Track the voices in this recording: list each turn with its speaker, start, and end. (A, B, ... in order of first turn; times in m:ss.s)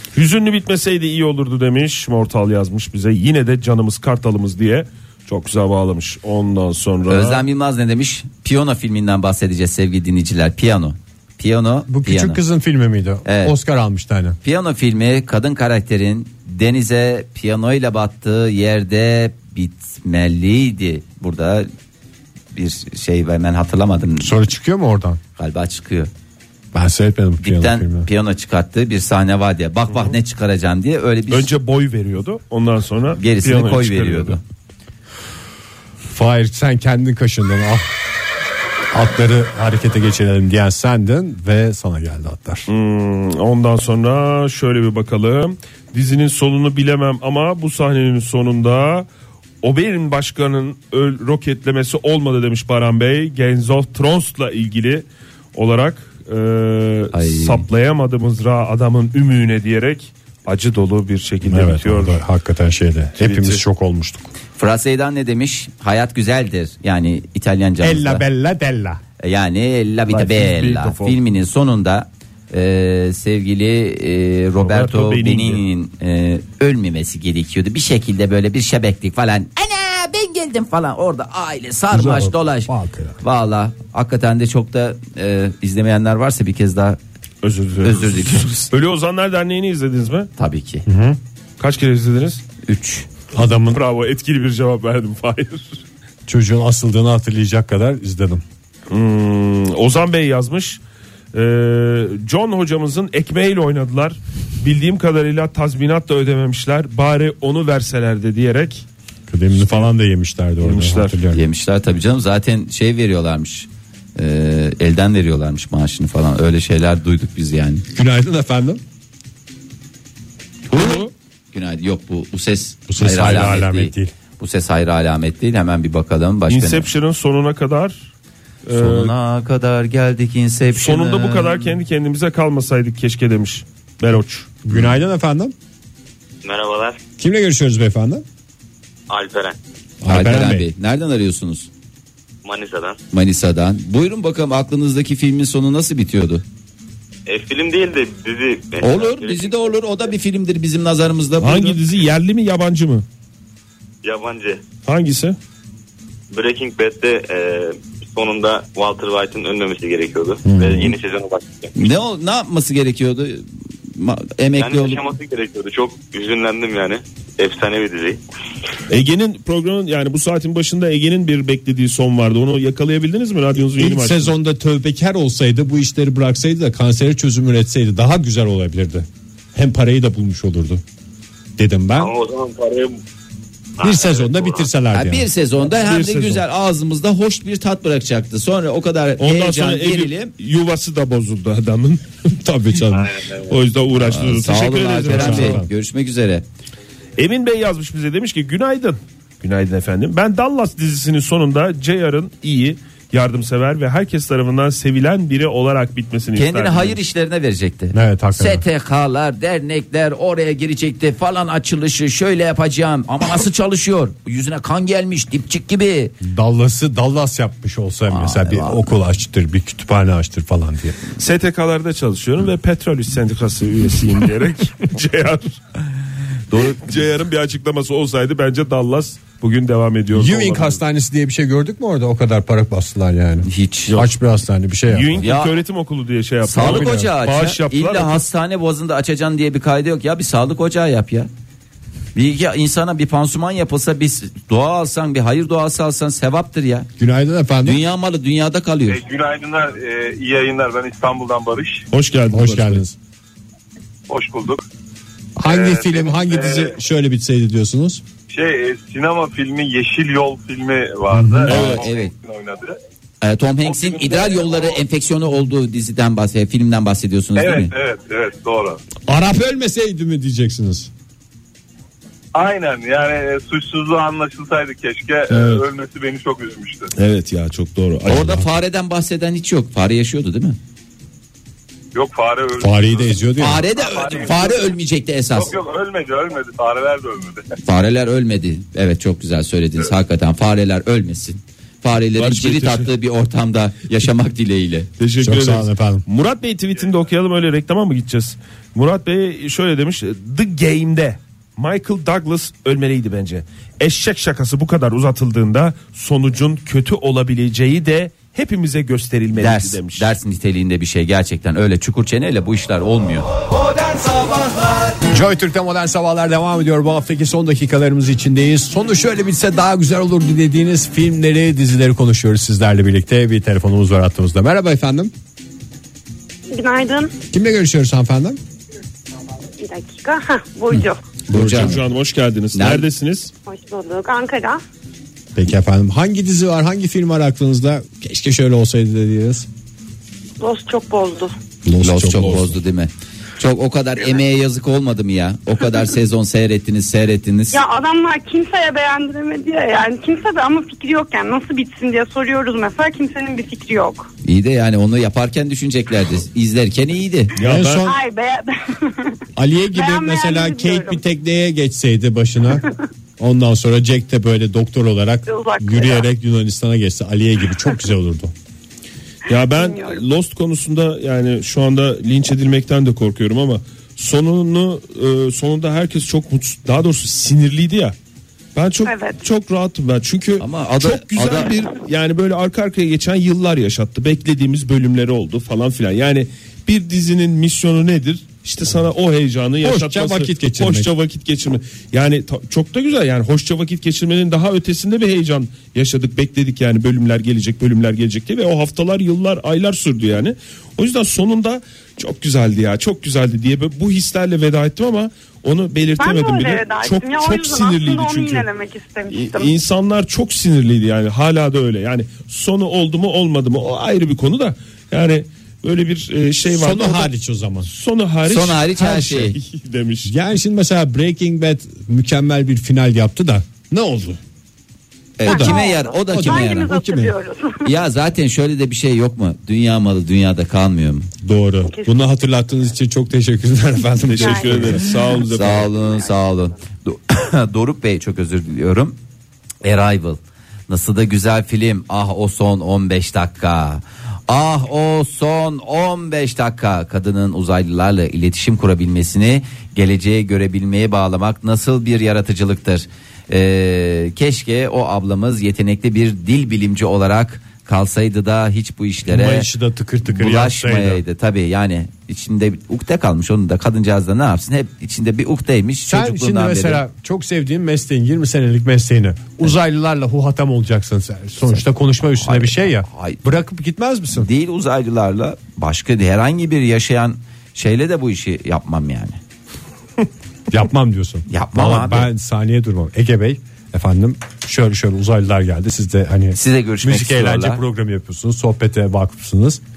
0:00.1-0:07.4 A
0:07.1-0:12.4 B
0:11.9-0:14.4 C
0:13.2-0:13.5 B
0:14.4-0:21.7 B
0:22.5-0:24.4 B
0:24.2-0:25.2 C
0:25.4-0:26.1 B
0:26.7-0:28.1 C
0:27.4-0:31.5 B
0:29.9-0:30.2 A
0:31.3-0:34.4 A
0:33.2-0:34.4 B
0:36.1-0:37.9 C
0:38.9-0:42.7 C
0:42.7-0:49.1 A
0:49.6-1:02.2 A
0:57.1-0:57.6 B
1:01.4-1:04.3 C
1:03.2-1:03.6 A
1:04.6-1:08.2 B
1:07.8-1:09.0 C
1:09.2-1:27.0 B
1:10.1-1:11.2 A
1:14.6-1:15.6 A
1:21.9-1:23.2 C
1:27.4-1:30.3 A
1:27.8-1:28.7 B
1:30.4-1:30.8 B
1:30.9-1:31.2 C
1:31.6-1:32.4 A
1:32.6-1:33.1 B
1:33.3-1:33.8 C
1:33.7-1:35.8 A
1:36.2-1:38.4 C
1:38.9-1:40.8 A
1:41.3-1:48.8 A
1:49.3-1:51.4 C
1:49.5-1:49.9 A
1:50.6-1:51.2 A
1:51.3-1:57.8 B
1:57.9-1:58.8 C
2:00.7-2:06.9 B
2:00.7-2:01.1 A
2:02.9-2:04.1 C
2:06.5-2:08.1 A
2:08.6-2:09.1 A
2:08.7-2:11.7 B
2:10.7-2:14.5 A
2:14.6-2:15.5 C
2:16.4-2:17.0 D
2:17.2-2:18.2 C
2:19.1-2:19.6 D
2:20.0-2:20.7 C
2:20.1-2:21.7 B
2:22.4-2:23.0 D
2:23.1-2:26.4 B
2:27.3-2:30.1 D
2:28.8-2:31.8 B
2:31.4-2:33.0 A
2:34.0-2:34.6 D
2:34.8-2:35.4 A
2:36.3-2:41.9 D
2:40.4-2:41.0 C
2:41.7-2:45.0 B
2:44.6-2:48.2 D
2:48.9-2:54.3 A
2:53.8-3:00.8 C
3:01.6-3:02.1 C
3:02.0-3:03.0 D
3:03.8-3:04.7 D
3:03.8-3:05.3 C
3:04.9-3:10.3 B
3:05.8-3:06.4 A
3:09.2-3:15.6 A
3:12.4-3:13.2 C
3:13.9-3:16.4 B
3:15.0-3:15.7 C
3:17.2-3:27.0 A
3:26.3-3:36.1 B
3:27.9-3:28.6 C
3:36.2-3:41.0 C
3:38.1-3:38.8 B
3:41.2-3:45.6 A
3:46.5-3:46.8 B
3:46.5-3:50.8 A
3:50.1-3:55.2 C
3:53.4-3:54.0 B
3:54.9-3:58.2 A
3:55.2-3:55.5 B
3:56.4-4:01.3 B
3:56.5-3:57.1 C
4:02.1-4:06.9 B
4:07.0-4:07.8 C
4:07.6-4:09.0 B
4:08.9-4:11.8 E
4:11.9-4:12.8 A
4:12.3-4:13.0 C
4:14.1-4:14.6 E
4:15.4-4:18.0 C
4:15.4-4:16.7 E
4:18.3-4:22.7 E
4:21.1-4:21.7 C
4:21.4-4:22.1 B
4:21.5-4:21.8 A
4:23.2-4:27.7 B
4:23.6-4:24.8 E
4:27.3-4:28.8 E
4:29.1-4:30.9 C
4:32.3-4:36.9 E
4:35.3-4:35.6 A
4:37.0-4:38.4 A
4:38.1-4:40.6 B
4:38.1-4:38.5 C
4:41.9-4:44.7 E
4:42.6-4:43.6 C
4:43.4-4:45.5 B
4:45.3-4:47.4 E
4:47.6-4:54.9 B
4:52.2-4:52.9 A
4:55.0-5:10.1 A
4:55.2-4:56.0 C
5:09.4-5:13.3 B
5:15.1-5:25.1 C
5:26.5-5:27.1 F
5:27.3-5:28.4 C
5:29.6-5:31.0 F
5:31.3-5:31.8 B
5:31.3-5:33.3 A
5:31.3-5:31.8 C
5:32.5-5:32.8 B
5:33.4-5:34.6 F
5:35.3-5:39.5 C
5:40.4-5:41.4 F
5:41.6-5:42.6 C
5:41.8-5:47.6 B
5:47.5-5:54.1 F
5:54.2-5:57.3 B
5:57.4-5:57.9 A
5:57.4-5:58.0 C
5:57.8-6:01.0 F
5:59.4-6:02.6 C
6:03.2-6:08.3 C
6:05.2-6:06.1 F
6:09.3-6:18.0 A
6:09.3-6:10.0 F
6:18.5-6:48.5 A
6:18.8-6:19.2 F
6:20.4-6:21.6 B
6:29.6-6:30.9 C
6:46.0-6:49.6 F
6:49.1-6:57.1 A
6:56.5-6:57.7 C
6:57.6-7:00.1 A
6:58.2-6:59.4 B
6:58.8-6:59.1 C
7:00.0-7:04.2 C
7:05.2-7:06.8 B
7:05.2-7:07.2 C
7:05.2-7:07.7 F
7:07.6-7:11.1 B
7:11.2-7:15.0 C
7:11.6-7:12.0 F
7:14.1-7:15.7 A
7:14.2-7:15.2 F
7:15.3-7:19.0 B
7:19.6-7:39.5 B
7:39.0-7:41.0 C
7:40.0-7:46.8 B
7:45.9-7:54.3 C
7:51.4-7:53.2 B
7:54.1-7:59.2 B
8:00.5-8:09.6 C
8:01.3-8:02.1 B
8:06.3-8:07.6 B